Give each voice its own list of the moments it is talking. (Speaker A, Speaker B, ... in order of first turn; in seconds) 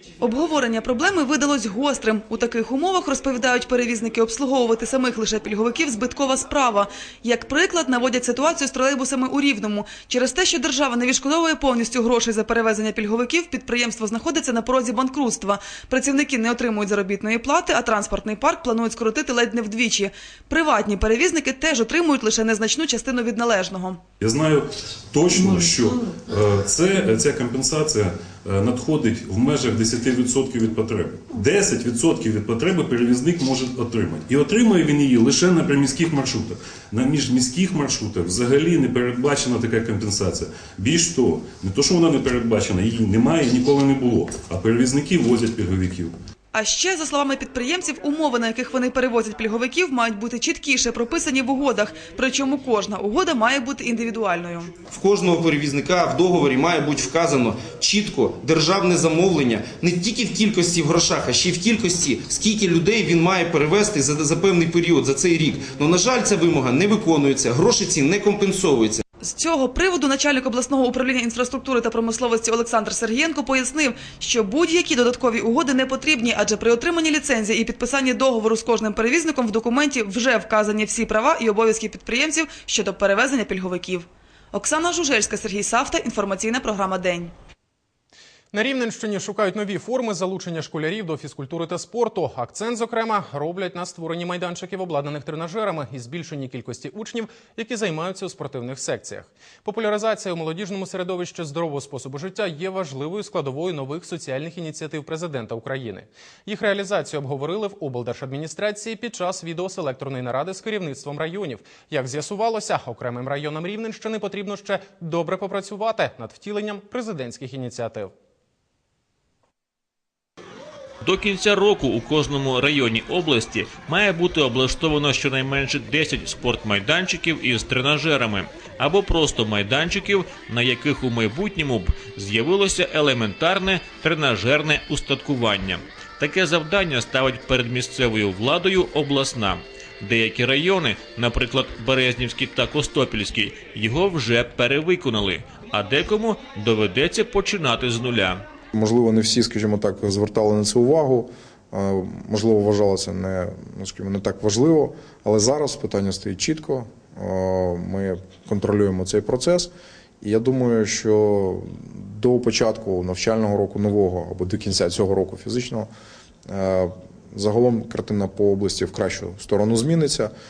Speaker A: 0.2-24.0, 46.5-54.7, 69.2-87.3
Speaker B: 24.2-46.1
Speaker C: 55.0-69.0
Speaker D: 88.5-118.1
Speaker E: 121.0-148.4
Speaker F: 148.7-159.7, 160.2-165.9, 166.5-170.3